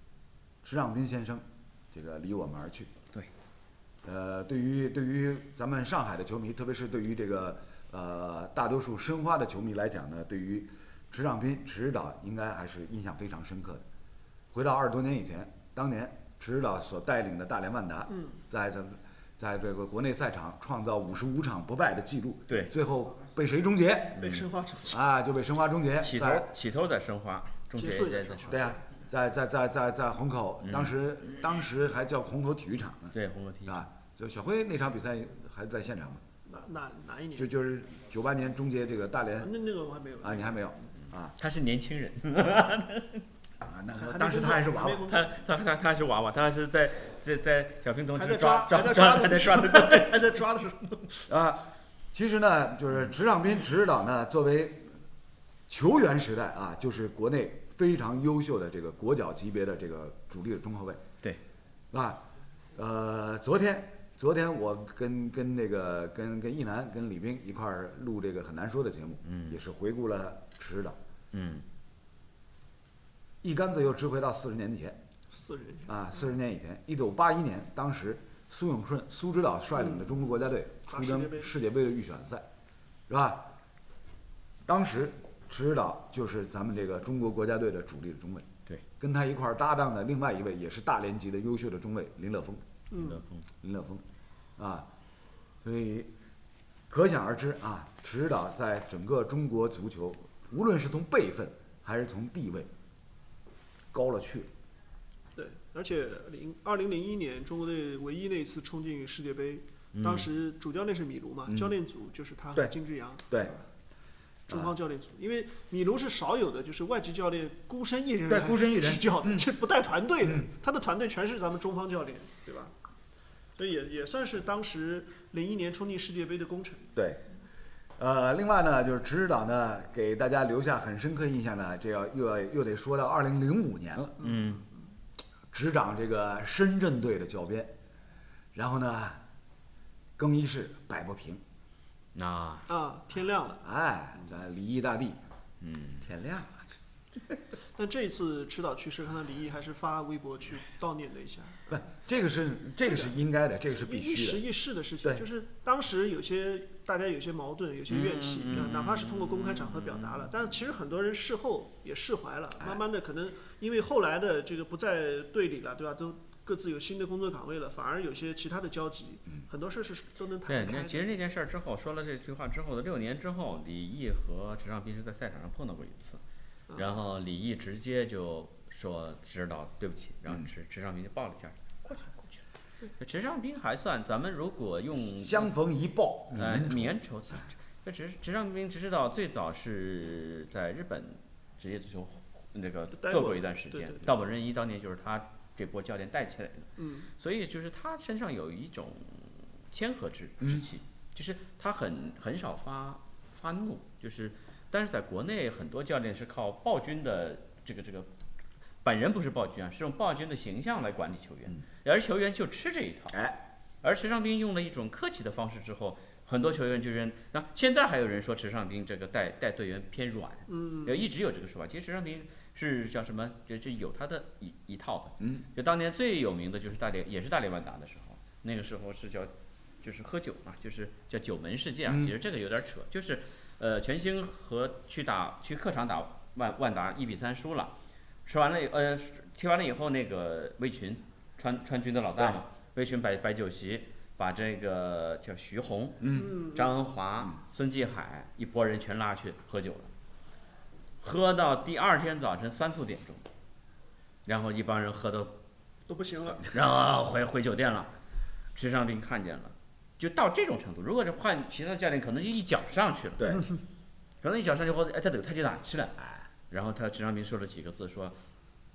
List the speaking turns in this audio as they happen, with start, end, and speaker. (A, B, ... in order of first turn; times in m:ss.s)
0:00.6-0:02.9 A
0:04.0-0:13.8 A
0:14.5-0:26.5 A
0:24.1-0:24.5 B
0:24.2-0:25.0 C
0:26.0-0:28.6 B
0:27.8-0:28.8 C
0:28.5-0:33.1 A
0:30.6-0:30.9 B
0:33.1-0:33.8 B
0:33.6-0:36.2 A
0:36.4-0:37.5 C
0:37.4-0:39.5 A
0:39.4-0:40.9 C
0:40.2-0:41.3 A
0:41.4-0:43.2 B
0:43.6-0:45.0 A
0:44.0-0:45.3 C
0:45.0-0:50.3 B
0:48.1-0:51.3 C
0:51.3-0:54.9 A
0:55.7-1:01.0 A
1:01.9-1:02.2 A
1:02.8-1:11.0 A
1:09.2-1:09.6 B
1:11.3-1:11.6 B
1:13.4-1:15.0 A
1:15.3-1:15.9 C
1:15.9-1:22.4 A
1:19.8-1:20.1 C
1:20.9-1:21.5 C
1:23.1-1:23.4 A
1:24.6-1:28.4 A
1:29.0-1:32.6 A
1:32.9-1:33.2 C
1:32.9-1:33.4 B
1:33.6-1:34.0 A
1:34.6-1:34.8 A
1:35.6-1:36.1 A
1:36.9-1:42.7 A
1:43.9-1:44.5 A
1:45.3-1:53.4 C
1:49.9-1:50.3 B
1:51.5-1:51.7 A
1:54.5-2:02.7 C
1:58.3-1:59.5 A
2:03.6-2:06.8 C
2:06.9-2:07.2 A
2:08.0-2:14.2 A
2:14.2-2:14.6 C
2:14.2-2:14.7 B
2:15.5-2:17.7 A
2:18.5-2:19.2 A
2:20.2-2:21.4 A
2:22.1-2:22.6 B
2:22.7-2:23.6 C
2:23.6-2:25.2 A
2:25.6-2:26.0 B
2:26.0-2:26.7 A
2:27.8-2:31.6 C
2:31.7-2:34.4 A
2:32.8-2:33.2 C
2:33.7-2:51.0 C
2:37.9-2:40.2 B
2:50.5-2:56.2 B
2:56.7-3:02.4 B
3:03.0-3:05.5 B
3:05.0-3:07.0 A
3:06.3-3:28.1 B
3:12.9-3:14.1 C
3:16.8-3:17.1 C
3:20.4-3:20.6 A
3:28.8-3:33.1 B
3:33.8-3:49.3 B
3:40.5-3:41.1 C
3:45.2-3:45.4 A
3:49.8-3:57.7 B
3:51.9-3:52.1 A
3:58.2-4:09.9 B
4:06.0-4:06.4 A
4:06.2-4:06.8 C
4:11.0-4:13.2 B
4:14.2-4:15.3 B
4:15.9-4:16.5 C
4:16.5-4:17.9 B
4:18.5-4:23.4 B
4:23.2-4:23.4 A
4:24.2-4:26.0 B
4:26.5-4:28.1 B